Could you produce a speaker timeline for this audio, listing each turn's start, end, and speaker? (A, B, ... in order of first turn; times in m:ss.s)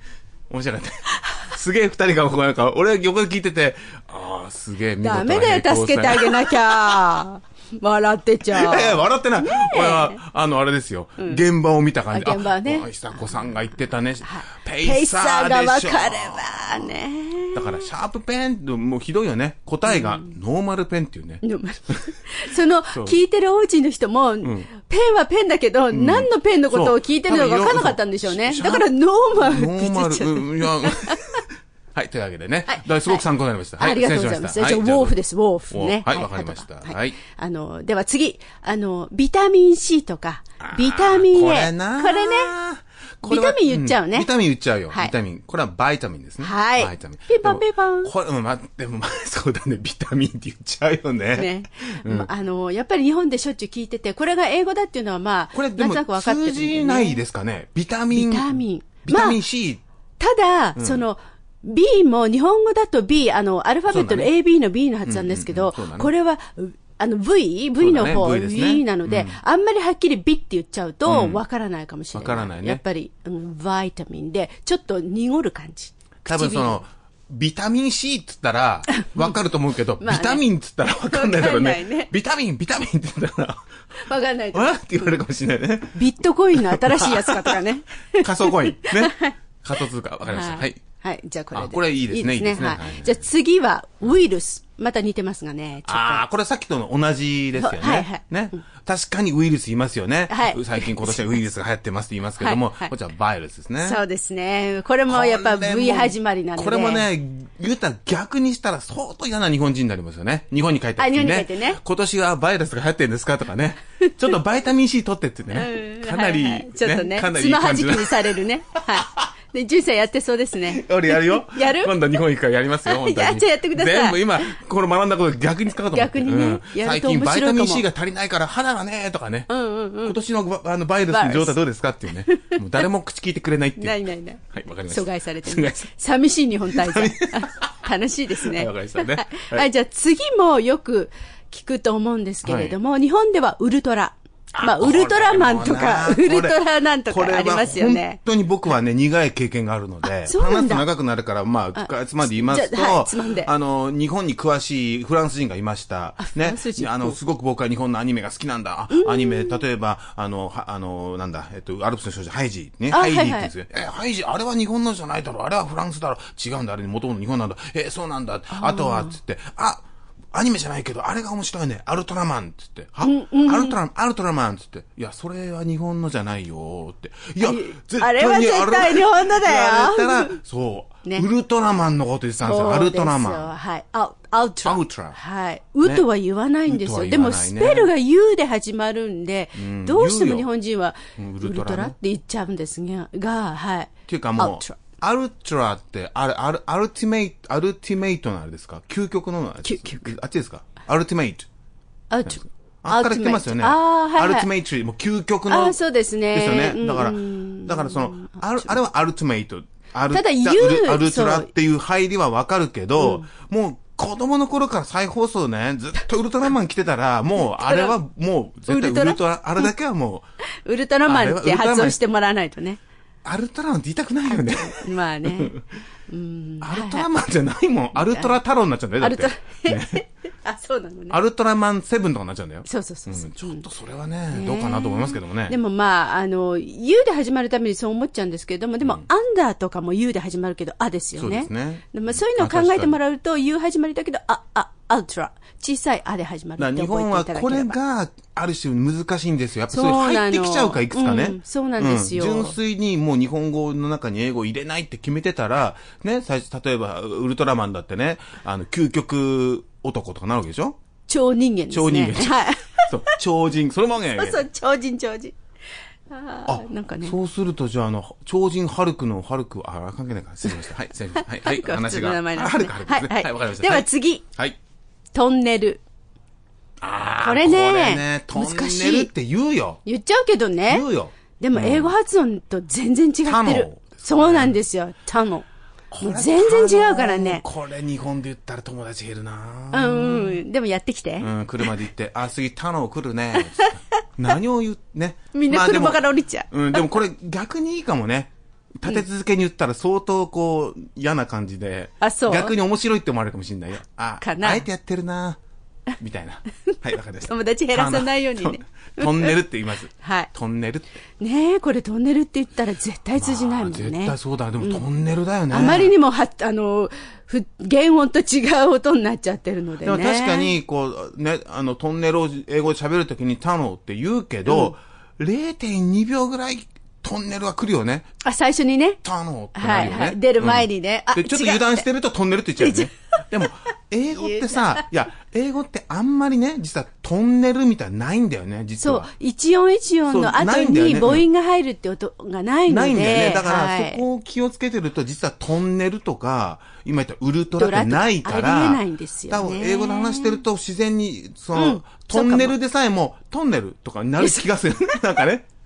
0:00.5-0:07.2 A
0:05.0-0:10.2 B
0:08.5-0:16.9 A
0:12.1-0:13.5 B
0:14.2-0:17.8 B
0:17.5-0:22.0 A
0:19.8-0:20.3 B
0:21.4-0:31.4 B
0:22.9-0:23.2 A
0:24.4-0:24.7 A
0:25.9-0:37.2 A
0:32.7-0:33.2 B
0:33.8-0:42.5 B
0:40.6-0:52.3 A
0:43.2-0:44.3 B
0:46.4-0:48.1 B
0:51.3-0:57.2 B
0:55.5-0:59.8 A
0:58.1-0:59.4 B
1:00.2-1:16.8 B
1:00.8-1:01.0 A
1:03.9-1:04.3 A
1:05.0-1:06.1 A
1:07.8-1:09.4 A
1:11.0-1:11.4 A
1:12.1-1:12.8 A
1:16.2-1:23.7 A
1:19.0-1:19.3 B
1:20.0-1:22.1 B
1:24.0-1:25.2 B
1:24.5-1:27.6 A
1:25.9-1:29.3 B
1:28.2-1:30.8 A
1:30.2-1:36.2 B
1:31.5-1:33.2 A
1:35.8-1:44.0 A
1:37.6-1:38.6 B
1:40.3-1:41.4 B
1:42.4-1:42.9 B
1:43.8-1:47.0 B
1:45.1-1:59.2 A
1:51.0-1:51.8 B
1:54.0-1:54.3 B
1:55.5-2:02.2 B
2:00.7-2:09.5 A
2:02.8-2:04.6 B
2:05.9-2:07.8 B
2:09.5-2:10.2 B
2:10.0-2:15.9 A
2:11.1-2:11.6 B
2:12.3-2:12.6 B
2:13.8-2:28.2 B
2:16.6-2:17.7 A
2:18.3-2:19.7 A
2:22.4-2:22.8 A
2:24.5-3:03.5 A
2:30.2-2:30.8 B
2:31.8-2:33.5 B
2:36.2-2:37.2 B
2:38.9-2:39.6 B
2:42.9-2:43.5 B
2:48.5-2:49.2 B
2:53.0-2:53.8 B
2:57.4-3:00.4 B
3:02.4-3:14.8 B
3:04.6-3:05.2 A
3:06.6-3:07.9 A
3:09.5-3:10.5 A
3:11.2-3:11.9 A
3:14.1-3:21.5 A
3:19.6-3:20.1 B
3:22.1-3:24.5 B
3:22.2-3:25.8 A
3:25.5-3:28.8 B
3:26.3-3:40.2 A
3:30.1-3:31.5 B
3:33.0-3:33.2 B
3:37.4-3:38.0 B
3:38.7-3:39.7 B
3:40.6-3:42.8 B
3:41.0-3:42.0 A
3:43.2-3:45.6 A
3:44.3-3:45.6 B
3:46.1-3:47.1 B
3:46.6-3:50.0 A
3:47.9-3:48.4 B
3:49.0-3:51.2 B
3:51.1-3:55.6 A
3:52.6-3:53.6 B
3:54.3-4:07.7 B
4:01.2-4:03.0 A
4:06.6-4:20.8 A
4:09.7-4:12.6 B
4:21.1-4:23.2 B
4:21.7-4:24.4 A
4:24.2-4:25.3 B
4:26.1-4:27.2 B
4:26.5-4:34.6 A
4:31.4-4:34.2 B
4:35.1-4:35.8 B
4:36.8-4:39.8 A
4:37.2-4:39.1 B
4:39.8-4:40.8 B
4:40.7-4:42.0 A
4:41.4-4:45.5 B
4:43.2-4:44.6 A
4:45.9-4:50.4 A
4:46.0-4:47.4 B
4:49.7-4:51.6 B
4:51.2-5:05.4 A
4:53.4-4:53.8 B
4:55.3-4:56.9 B
5:02.0-5:02.6 B
5:04.2-5:04.6 B
5:06.0-5:10.8 A
5:07.3-5:09.4 B
5:10.0-5:10.3 B
5:11.2-5:14.8 B
5:13.2-5:15.9 A
5:15.5-5:20.5 B
5:19.8-5:28.0 A
5:24.5-5:24.7 B
5:28.2-5:29.0 B
5:29.0-5:39.1 A
5:29.5-5:31.8 B
5:32.6-5:32.9 B
5:34.2-5:34.8 B
5:38.8-5:44.0 B
5:40.1-5:41.2 A
5:42.7-5:55.5 A
5:47.5-5:50.4 B
5:51.5-5:52.5 B
5:54.2-5:55.0 B